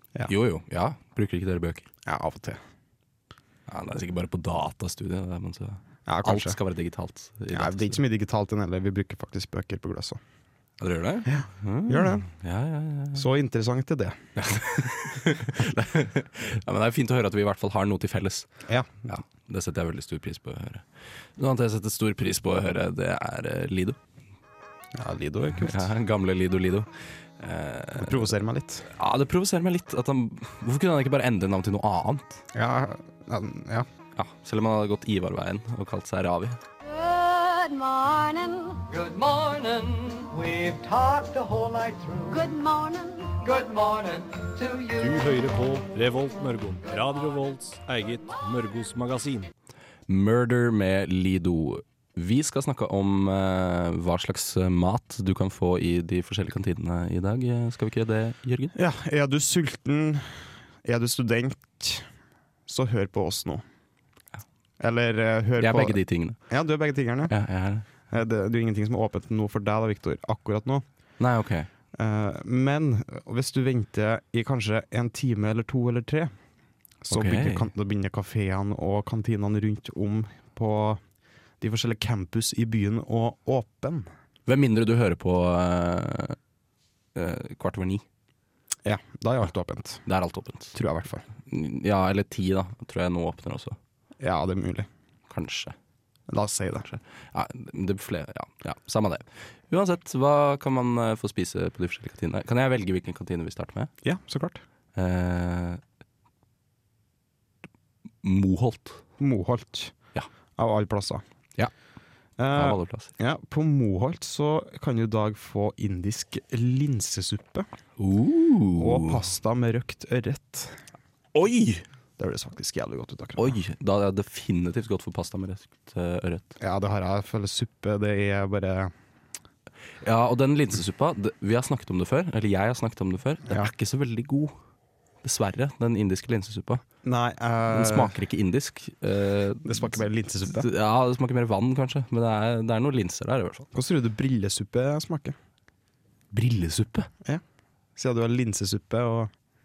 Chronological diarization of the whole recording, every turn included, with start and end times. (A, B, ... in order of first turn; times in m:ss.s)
0:00.3-0:01.9 A
0:02.1-0:02.6 B
0:03.7-0:08.0 A
0:06.1-0:06.6 B
0:07.5-0:10.2 B
0:10.8-0:13.2 A
0:11.2-0:12.3 B
0:13.2-0:14.9 B
0:14.4-0:18.5 A
0:18.7-0:19.2 B
0:19.1-0:20.8 A
0:21.4-0:24.0 A
0:25.0-0:25.8 B
0:25.6-0:28.3 A
0:28.0-0:28.9 B
0:28.9-0:32.4 A
0:32.5-0:33.9 B
0:34.2-0:36.6 A
0:36.9-0:38.8 C
0:38.9-0:42.4 D
0:42.3-0:43.4 C
0:43.4-0:45.2 D
0:45.0-0:49.5 E
0:50.1-0:58.7 A
0:58.8-1:02.1 B
1:02.7-1:03.6 B
1:04.8-1:07.3 B
1:05.6-1:06.4 A
1:07.3-1:07.9 A
1:08.1-1:10.8 B
1:11.2-1:11.7 A
1:12.0-1:16.3 B
1:17.0-1:21.0 B
1:17.1-1:17.7 A
1:21.6-1:24.1 B
1:24.5-1:26.4 A
1:27.2-1:28.0 A
1:28.8-1:30.0 B
1:30.1-1:30.8 A
1:30.7-1:31.3 B
1:31.5-1:33.8 A
1:34.2-1:34.9 B
1:35.3-1:35.8 A
1:36.3-1:36.9 B
1:36.9-1:43.9 A
1:44.0-1:44.6 B
1:45.0-1:45.8 A
1:48.2-1:49.0 A
1:49.2-1:50.0 B
1:50.6-1:51.2 B
1:52.4-1:57.7 B
1:52.5-1:53.1 A
1:58.0-1:59.2 A
1:58.8-2:00.8 B
2:01.3-2:01.8 A
2:02.2-2:03.6 B
2:03.4-2:06.5 A
2:06.6-2:08.9 B
2:10.0-2:14.6 A
2:15.2-2:16.8 A
2:17.0-2:18.2 B
2:17.7-2:23.7 A
2:19.6-2:20.7 B
2:23.7-2:25.4 B
2:26.3-2:27.1 A
2:28.0-2:29.3 B